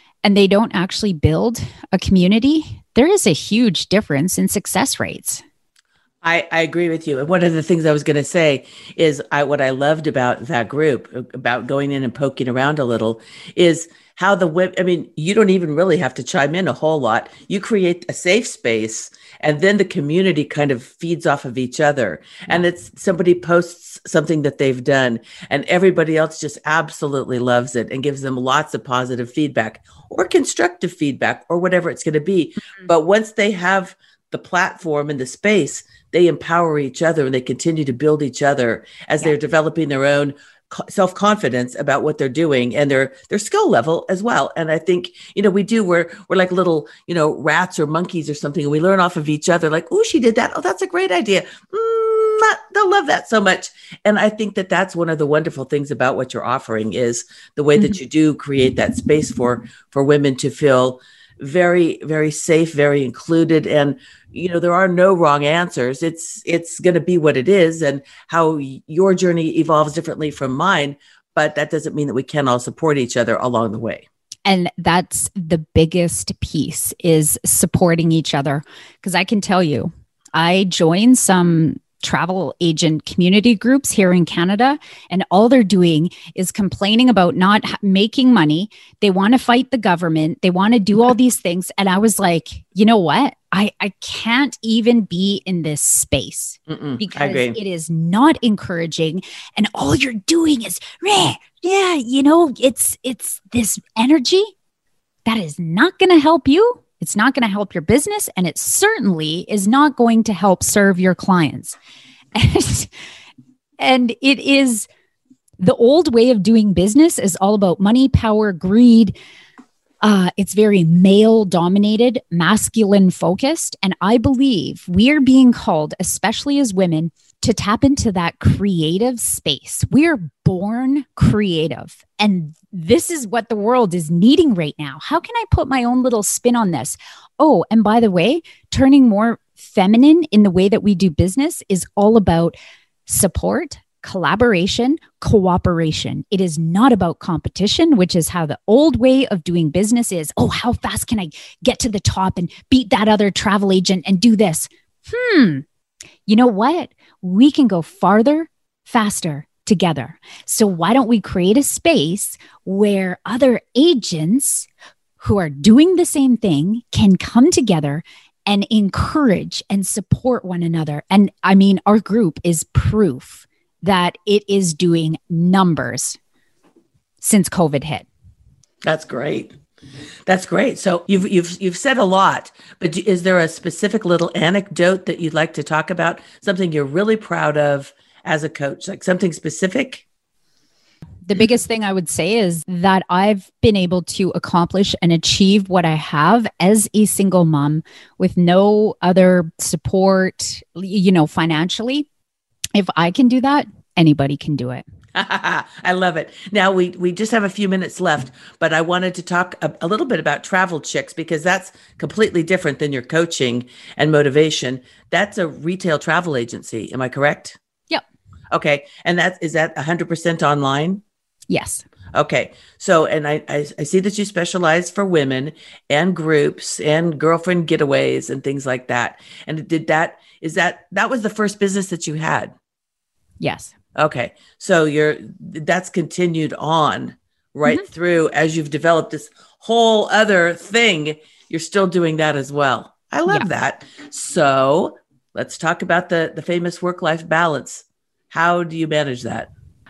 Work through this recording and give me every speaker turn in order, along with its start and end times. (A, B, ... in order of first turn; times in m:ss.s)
0:00.2-0:05.4 A
0:06.2-1:14.0 B
1:14.5-1:44.5 A
1:36.7-1:37.6 B
1:45.3-1:51.8 A
1:52.4-1:52.9 A
1:53.8-1:54.9 A
1:55.6-1:59.1 A
2:00.0-2:35.6 A
2:36.3-2:44.7 A
2:45.2-2:56.2 A
2:57.2-2:58.1 A
2:58.8-2:59.5 B
3:00.3-3:10.0 B
3:11.3-3:22.1 A
3:22.8-3:24.8 A
3:25.1-3:37.6 B
3:38.5-3:41.0 B
3:41.5-3:41.8 A
3:42.1-3:52.5 B
3:53.4-3:53.7 A
3:54.0-4:09.5 B